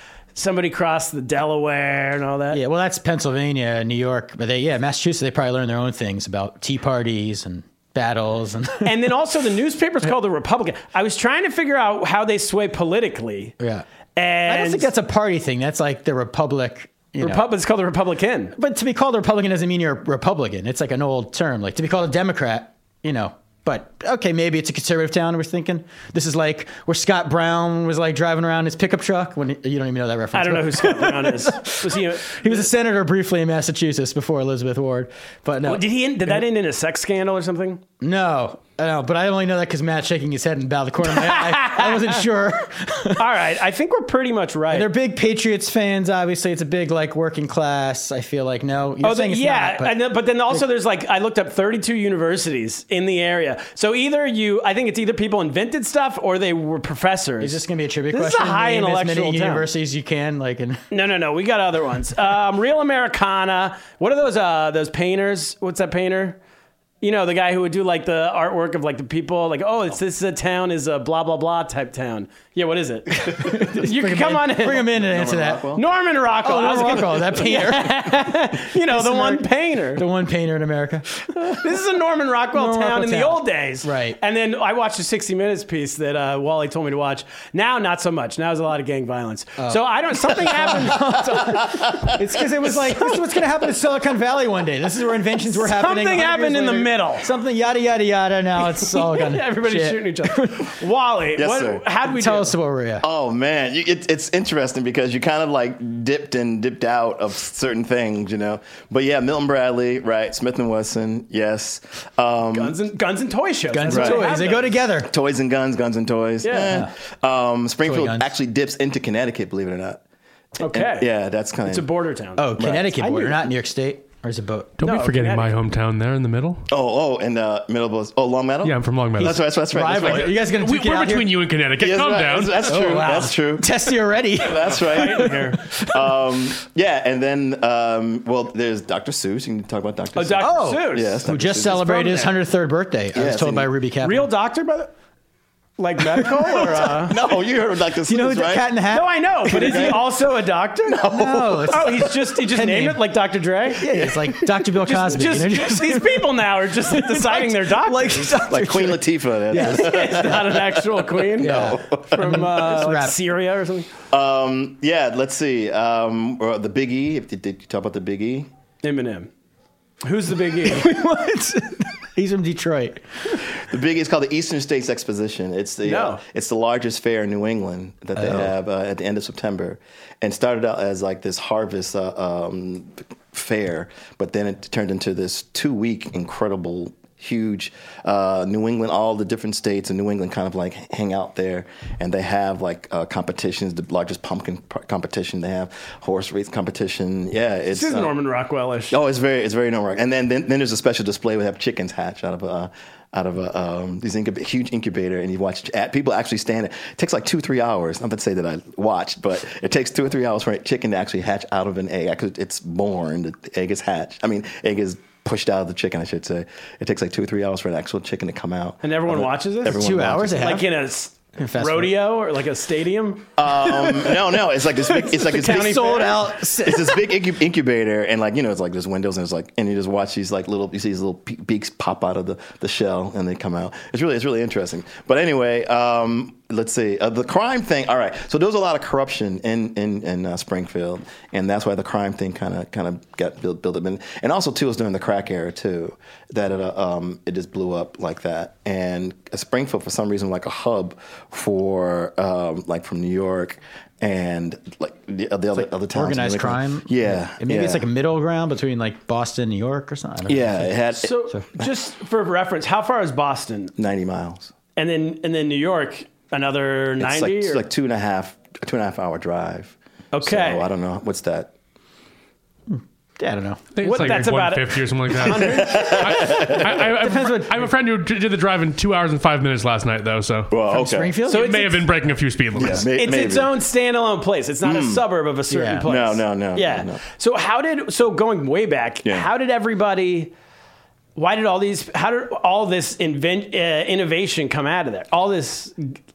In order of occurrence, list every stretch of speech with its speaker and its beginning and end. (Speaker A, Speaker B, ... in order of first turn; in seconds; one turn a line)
Speaker A: 0.3-2.6
Speaker B: 2.5-9.1
Speaker A: 8.8-13.6
Speaker B: 13.6-13.8
Speaker A: 14.1-14.9
Speaker B: 14.4-17.5
Speaker A: 17.2-18.5
Speaker B: 18.6-36.4
Speaker A: 30.3-32.7
Speaker A: 35.6-37.8
Speaker B: 38.0-43.3
Speaker A: 41.0-42.2
Speaker A: 43.1-44.9
Speaker B: 44.7-49.9
Speaker A: 49.0-57.6
Speaker B: 57.4-60.8
Speaker A: 58.1-59.7
Speaker A: 60.9-66.4
Speaker A: 67.0-74.9
Speaker B: 73.2-75.8
Speaker C: 74.8-75.8
Speaker A: 75.7-80.0
Speaker B: 76.4-81.7
Speaker A: 81.3-92.1
Speaker B: 82.5-84.2
Speaker B: 89.6-100.8
Speaker C: 91.6-92.3
Speaker A: 92.7-93.0
Speaker A: 95.4-97.3
Speaker A: 98.6-102.5
Speaker C: 101.3-101.8
Speaker B: 102.0-103.0
Speaker C: 103.0-112.8
Speaker A: 112.5-114.8
Speaker B: 113.7-115.1
Speaker C: 113.9-114.3
Speaker C: 115.0-120.0
Speaker A: 116.4-116.8
Speaker B: 116.5-116.9
Speaker B: 117.8-118.3
Speaker A: 120.6-121.1
Speaker C: 120.6-121.9
Speaker A: 121.7-123.4
Speaker B: 122.3-124.8
Speaker C: 122.6-122.9
Speaker D: 124.8-126.7
Speaker A: 124.8-125.5
Speaker C: 126.7-130.4
Speaker D: 128.6-133.0
Speaker B: 129.2-131.4
Speaker C: 131.8-133.8
Speaker B: 132.7-136.2
Speaker C: 134.4-142.3
Speaker A: 134.8-135.5
Speaker A: 140.1-141.2
Speaker B: 140.4-144.3
Speaker A: 141.8-142.3
Speaker C: 143.1-143.7
Speaker A: 144.0-144.9
Speaker A: 145.8-147.2
Speaker B: 146.1-147.0
Speaker C: 146.6-148.7
Speaker B: 148.0-150.0
Speaker A: 148.9-151.0
Speaker C: 149.5-150.1
Speaker C: 150.8-152.1
Speaker B: 151.0-153.0
Speaker A: 151.7-158.4
Speaker B: 153.7-160.5
Speaker C: 158.4-162.5
Speaker A: 159.5-163.9
Speaker B: 161.4-163.2
Speaker C: 164.1-168.5
Speaker A: 168.8-169.3
Speaker A: 170.0-170.9
Speaker B: 170.6-173.0
Speaker C: 173.6-198.2
Speaker A: 175.8-176.2
Speaker B: 178.1-178.5
Speaker A: 197.7-199.0
Speaker C: 198.9-220.6
Speaker A: 218.8-224.1
Speaker B: 219.6-220.7
Speaker B: 221.4-222.0
Speaker C: 223.4-257.8
Speaker B: 224.9-227.2
Speaker A: 225.0-226.4
Speaker B: 255.5-261.4
Speaker C: 260.3-261.1
Speaker A: 261.0-263.7
Speaker C: 263.8-264.5
Speaker A: 264.8-267.6
Speaker C: 267.0-271.5
Speaker A: 270.1-270.7
Speaker B: 272.7-273.6
Speaker D: 273.8-280.5
Speaker A: 273.8-276.2
Speaker C: 275.2-276.9
Speaker B: 276.8-277.7
Speaker C: 280.5-281.1
Speaker B: 280.7-281.5
Speaker D: 281.2-282.9
Speaker A: 281.3-281.9
Speaker C: 282.5-283.6
Speaker A: 282.9-290.3
Speaker C: 284.6-285.0
Speaker B: 285.5-285.9
Speaker C: 285.8-287.0
Speaker A: 291.1-296.0